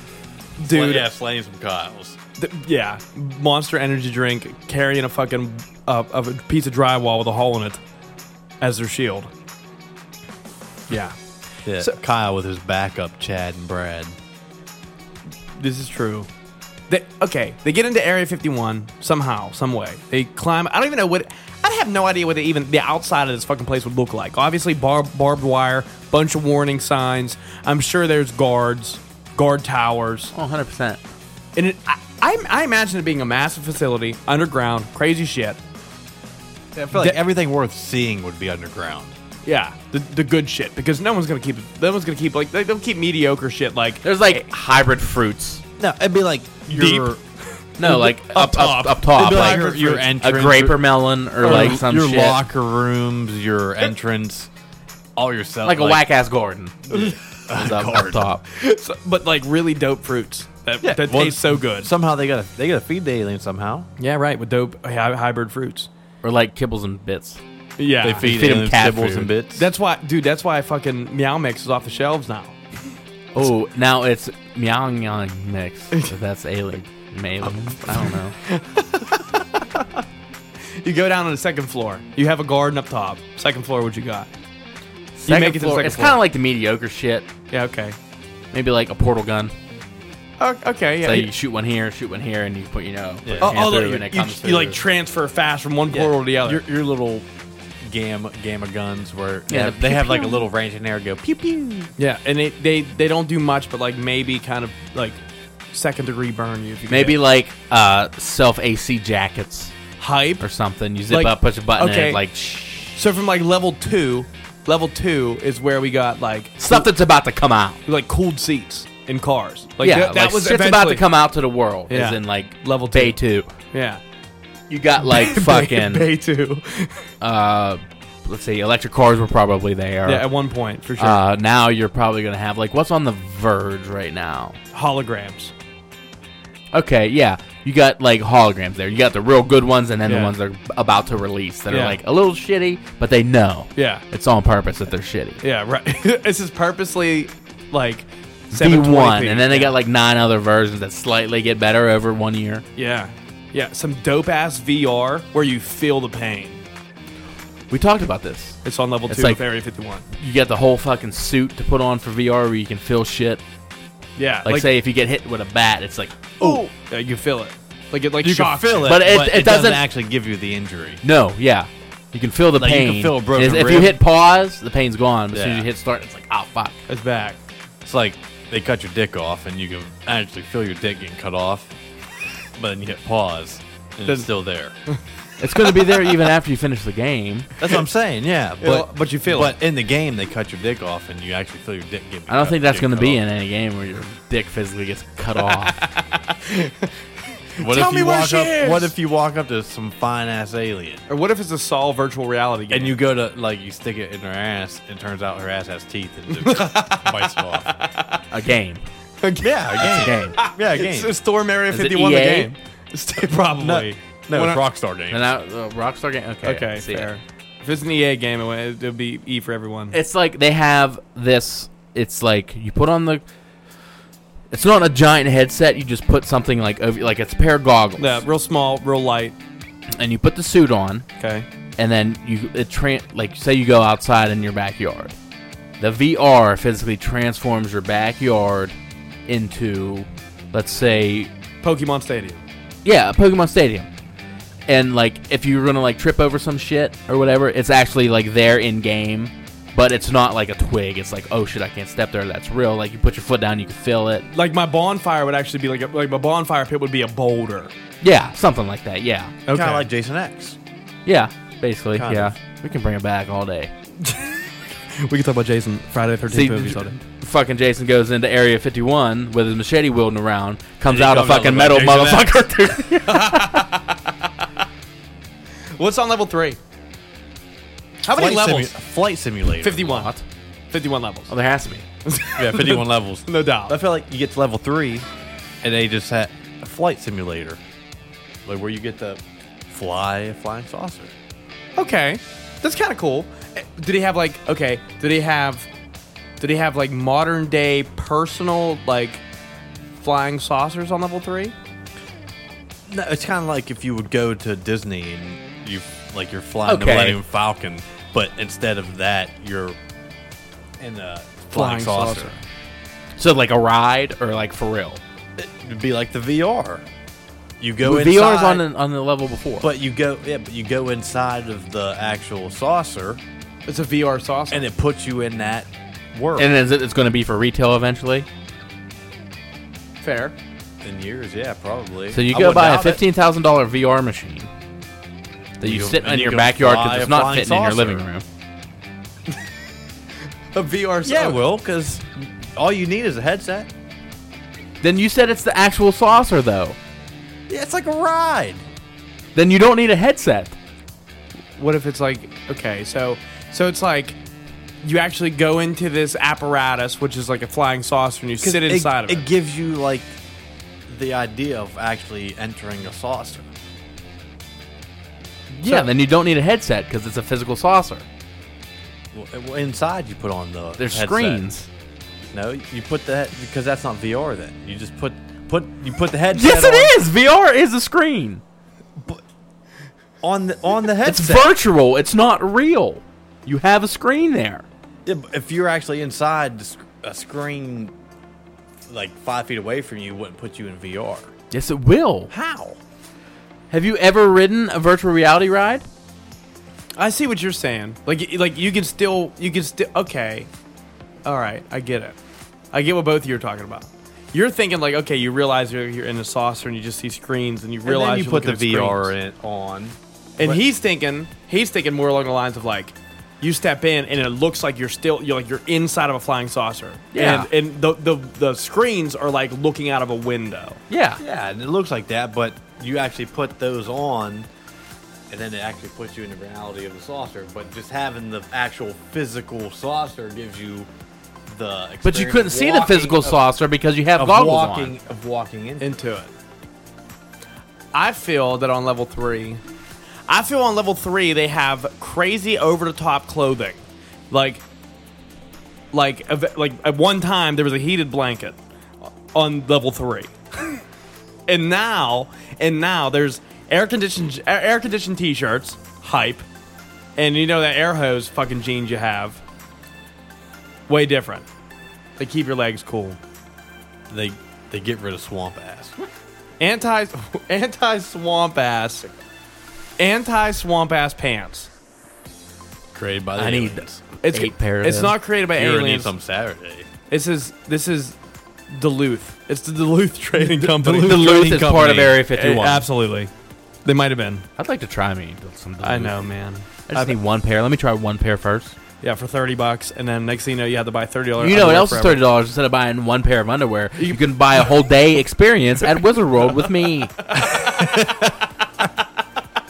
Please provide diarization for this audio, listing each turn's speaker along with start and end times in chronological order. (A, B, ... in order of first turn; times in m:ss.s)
0:00.6-0:01.1 A
0:00.7-0:02.2 B
0:02.4-0:07.8 A
0:08.6-0:09.3 A
0:10.9-0:11.2 A
0:11.6-0:14.1 B
0:15.6-0:16.3 A
0:16.9-0:30.3 A
0:30.3-0:31.0 C
0:31.6-0:35.6 A
0:36.8-0:39.1 B
0:36.9-0:37.2 A
0:39.4-0:44.4 A
0:44.0-0:45.6 C
0:45.8-0:47.2 B
0:46.7-0:47.2 A
0:47.8-0:50.1 A
0:47.8-0:52.4 C
0:49.1-0:54.5 B
0:51.4-0:51.8 A
0:55.2-0:56.0 B
0:55.6-0:58.4 C
0:56.9-0:58.3 B
0:58.5-1:01.9 A
1:00.8-1:03.9 B
1:04.0-1:05.9 A
1:06.2-1:07.4 C
1:07.8-1:08.3 A
1:08.0-1:09.7 B
1:08.2-1:09.3 C
1:09.6-1:12.6 A
1:13.3-1:18.4 C
1:17.8-1:19.3 A
1:20.8-1:24.3 A
1:25.2-1:27.3 C
1:25.3-1:26.2 A
1:27.5-1:28.0 A
1:28.5-1:29.5 C
1:30.4-1:31.3 A
1:31.0-1:34.8 C
1:33.2-1:33.8 B
1:33.4-1:36.6 A
1:35.9-1:37.3 B
1:37.8-1:41.9 B
1:39.5-1:40.4 C
1:42.0-1:45.2 A
1:45.7-1:47.2 A
1:46.9-1:49.7 C
1:50.0-1:50.4 A
1:50.4-1:53.0 C
1:51.1-1:52.2 A
1:53.0-1:56.9 A
1:56.6-1:57.8 C
1:57.9-2:01.0 A
1:59.8-2:03.5 C
2:01.9-2:03.2 A
2:03.7-2:04.0 A
2:04.7-2:06.1 C
2:05.0-2:07.0 A
2:07.2-2:10.2 C
2:10.1-2:11.2 A
2:11.0-2:14.6 C
2:14.7-2:15.5 A
2:16.7-2:25.4 C
2:20.1-2:20.3 A
2:21.7-2:22.0 A
2:23.8-2:24.0 A
2:25.4-2:29.7 A
2:28.5-2:32.6 C
2:32.8-2:36.6 A
2:37.7-2:39.4 C
2:38.6-2:40.1 A
2:40.1-2:43.4 C
2:44.2-2:44.7 A
2:44.4-2:46.2 C
2:46.4-2:49.0 A
2:48.2-2:51.0 B
2:48.9-2:49.8 C
2:51.0-2:56.8 C
2:52.6-2:54.0 B
2:55.3-2:55.7 B
2:56.9-2:57.4 A
2:57.8-3:01.7 B
3:02.6-3:04.7 B
3:05.4-3:07.5 C
3:05.6-3:06.3 A
3:07.6-3:13.2 B
3:08.6-3:09.6 A
3:12.3-3:15.9 C
3:15.5-3:16.9 A
3:17.5-3:18.9 A
3:17.6-3:21.0 B
3:21.1-3:23.0 A
3:22.7-3:27.7 B
3:26.3-3:28.2 A
3:28.3-3:28.8 C
3:29.2-3:34.6 A
3:29.4-3:31.1 B
3:29.9-3:30.4 C
3:31.7-3:32.5 C
3:33.6-3:35.2 B
3:35.1-3:37.1 C
3:36.4-3:40.0 A
3:39.9-3:43.2 C
3:44.5-3:48.2 C
3:48.0-3:49.4 A
3:50.0-3:51.0 C
3:51.2-3:51.5 A
3:51.8-3:55.2 C
3:55.8-3:58.8 C
3:59.3-4:01.3 C
4:01.6-4:02.4 A
4:02.8-4:03.9 C
4:04.7-4:14.2 C
4:14.3-4:17.7 A
4:18.0-4:19.4 C
4:19.5-4:19.9 A
4:19.5-4:20.6 B
4:21.1-4:23.7 C
4:22.0-4:22.4 B
4:24.0-4:24.4 A
4:24.9-4:27.0 A
4:26.3-4:33.6 C
4:30.9-4:32.4 B
4:33.1-4:34.2 A
4:35.8-4:36.6 A
4:38.0-4:38.8 A
4:38.1-4:40.0 B
4:39.6-4:40.1 A
4:39.9-4:40.2 C
4:40.7-4:41.3 A
4:41.3-4:41.8 C
4:42.0-4:43.8 A
4:42.4-4:45.1 B
4:45.6-4:47.6 B
4:48.4-4:51.1 B
4:51.8-4:55.7 A
4:56.4-4:59.2 A
5:00.0-5:01.5 A
5:02.9-5:09.8 B
5:06.6-5:07.2 C
5:10.8-5:12.3 B
5:11.5-5:12.4 A
5:13.2-5:15.0 C
5:15.4-5:16.8 B
5:17.6-5:18.6 B
5:17.8-5:19.7 C
5:19.6-5:23.2 B
5:23.7-5:24.6 A
5:24.5-5:26.5 B
5:26.4-5:28.3 C
5:30.0-5:30.3 A
5:30.8-5:33.0 B
5:32.1-5:34.5 C
5:35.6-5:38.2 C
5:35.6-5:38.0 B
5:40.5-5:41.4 A
5:41.0-5:43.7 B
5:44.8-5:46.8 C
5:47.5-5:48.6 B
5:49.4-5:50.6 C
5:51.6-5:54.2 A
5:54.8-5:59.3 A
5:58.4-6:00.1 B
6:00.9-6:03.5 B
6:05.5-6:08.1 C
6:09.1-6:11.4 B
6:10.8-6:11.7 C
6:12.3-6:17.0 B
6:16.3-6:18.4 C
6:20.2-6:21.6 B
6:21.0-6:24.6 C
6:25.1-6:27.9 B
6:28.9-6:31.3 B
6:31.5-6:32.3 C
6:32.3-6:32.8 B
6:33.7-6:35.8 C
6:37.0-6:40.5 A
6:41.2-6:42.2 A
6:42.7-6:49.1 A
6:47.8-6:50.6 B
6:50.4-7:00.8 A
6:57.1-6:57.5 C
7:00.9-7:01.2 C
7:01.2-7:04.5 B
7:05.3-7:10.9 B
7:11.5-7:13.4 B
7:12.0-7:14.9 C
7:14.2-7:16.0 B
7:15.8-7:16.3 A
7:17.9-7:19.6 A
7:20.3-7:24.6 A
7:25.9-7:30.4 A
7:31.5-7:36.4 A
7:37.2-7:39.4 A
7:40.9-7:41.5 A
7:42.2-7:43.2 A
7:44.1-7:46.0 B
7:46.6-7:49.1 A
7:50.0-7:51.7 A
7:52.9-7:54.0 B
7:53.4-7:55.2 C
7:54.2-7:56.1 A
7:55.6-7:56.9 B
7:57.1-7:58.2 A
7:58.7-8:01.5 A
8:00.4-8:02.3 B
8:01.0-8:02.8 C
8:02.3-8:03.3 A
8:03.8-8:04.5 A
8:04.6-8:06.3 C
8:05.8-8:07.2 A
8:06.9-8:08.8 C
8:09.0-8:12.2 A
8:11.4-8:17.2 C
8:14.0-8:14.7 A
8:17.2-8:18.8 A